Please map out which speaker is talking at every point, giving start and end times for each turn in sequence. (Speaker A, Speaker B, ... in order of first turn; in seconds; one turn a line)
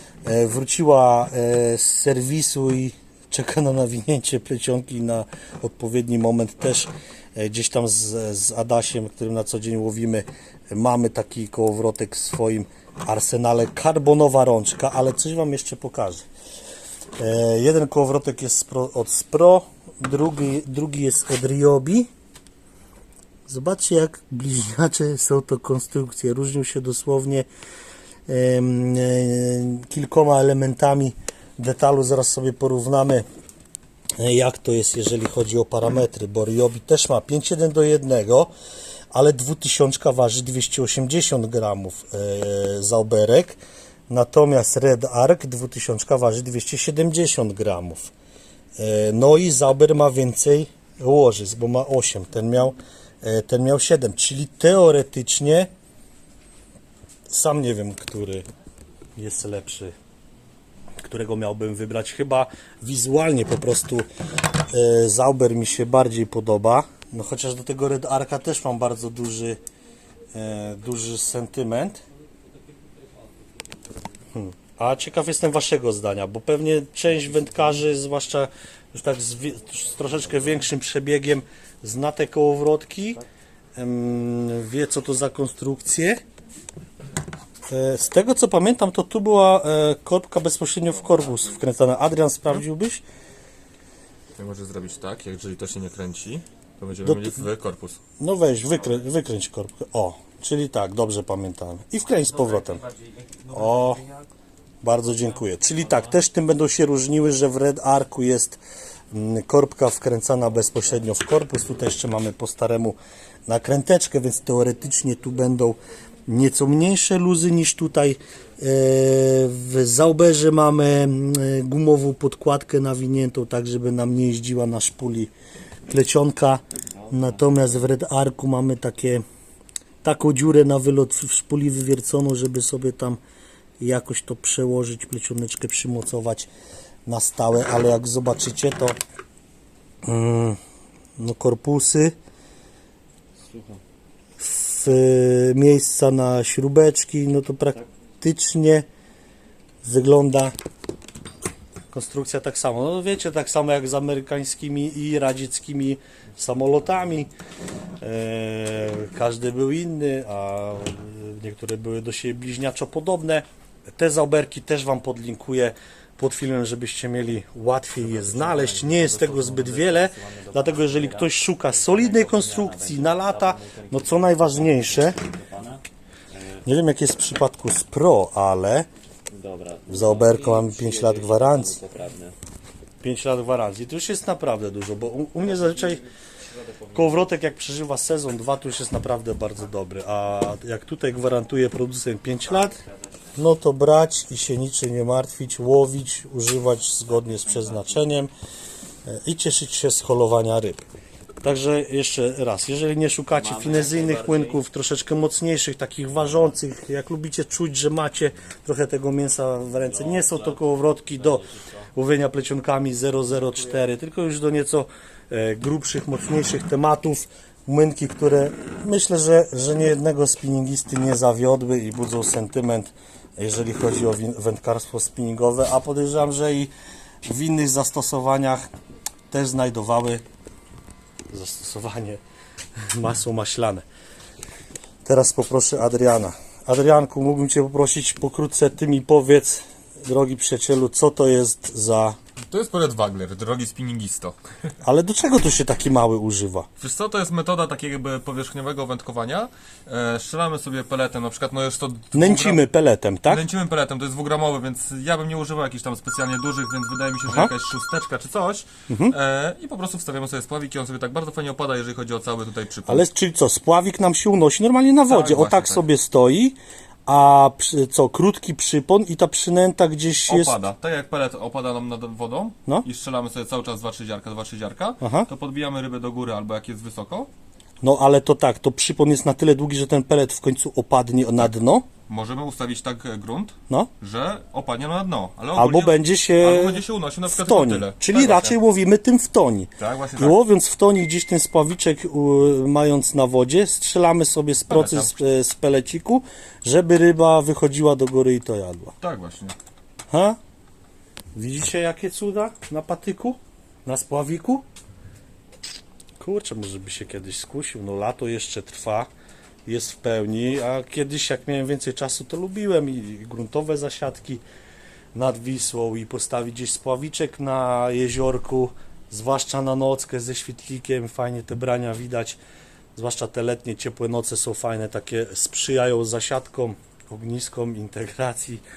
Speaker A: 0.2-16.3
Speaker A: 17.2-22.1
Speaker A: 23.5-27.5
Speaker A: 28.3-33.2
Speaker A: 34.2-38.5
Speaker A: 39.1-43.6
Speaker A: 44.1-48.1
Speaker A: 48.8-55.7
Speaker A: 57.3-58.4
Speaker A: 59.2-59.9
Speaker A: 61.0-69.6
Speaker A: 70.3-72.0
Speaker A: 74.3-83.2
Speaker A: 83.8-86.2
Speaker A: 87.7-93.0
Speaker B: 94.4-98.0
Speaker A: 97.0-97.5
Speaker A: 98.2-102.9
Speaker A: 103.5-104.1
Speaker A: 104.8-108.6
Speaker A: 109.1-113.0
Speaker A: 113.5-125.3
Speaker A: 125.9-129.2
Speaker A: 130.0-133.2
Speaker A: 133.8-136.5
Speaker A: 137.1-139.0
Speaker A: 140.0-140.6
Speaker A: 141.2-142.2
Speaker C: 143.5-143.8
Speaker A: 144.4-148.9
Speaker A: 149.8-150.5
Speaker A: 151.9-157.3
Speaker A: 158.0-175.2
Speaker C: 168.0-175.8
Speaker C: 176.3-176.6
Speaker A: 176.6-178.9
Speaker C: 179.3-182.3
Speaker A: 179.9-181.8
Speaker A: 183.0-186.0
Speaker A: 186.9-192.8
Speaker C: 192.7-193.2
Speaker A: 193.3-198.3
Speaker A: 199.1-200.8
Speaker A: 201.4-226.7
Speaker C: 203.4-204.6
Speaker C: 209.9-211.8
Speaker A: 227.3-228.7
Speaker A: 229.3-230.2
Speaker A: 231.3-232.2
Speaker A: 232.9-233.8
Speaker A: 235.1-242.2
Speaker B: 242.5-244.4
Speaker A: 244.8-246.7
Speaker B: 246.8-252.6
Speaker A: 252.1-253.4
Speaker B: 253.3-263.1
Speaker A: 262.9-266.6
Speaker B: 265.1-265.9
Speaker A: 267.1-270.6
Speaker B: 270.3-277.3
Speaker A: 275.0-275.3
Speaker A: 277.8-281.9
Speaker B: 282.1-288.6
Speaker A: 285.6-298.9
Speaker B: 289.8-290.4
Speaker B: 294.7-295.1
Speaker B: 299.0-299.6
Speaker A: 300.1-300.4
Speaker A: 301.4-304.6
Speaker A: 306.2-309.1
Speaker A: 309.7-314.4
Speaker A: 315.1-322.4
Speaker A: 322.9-328.6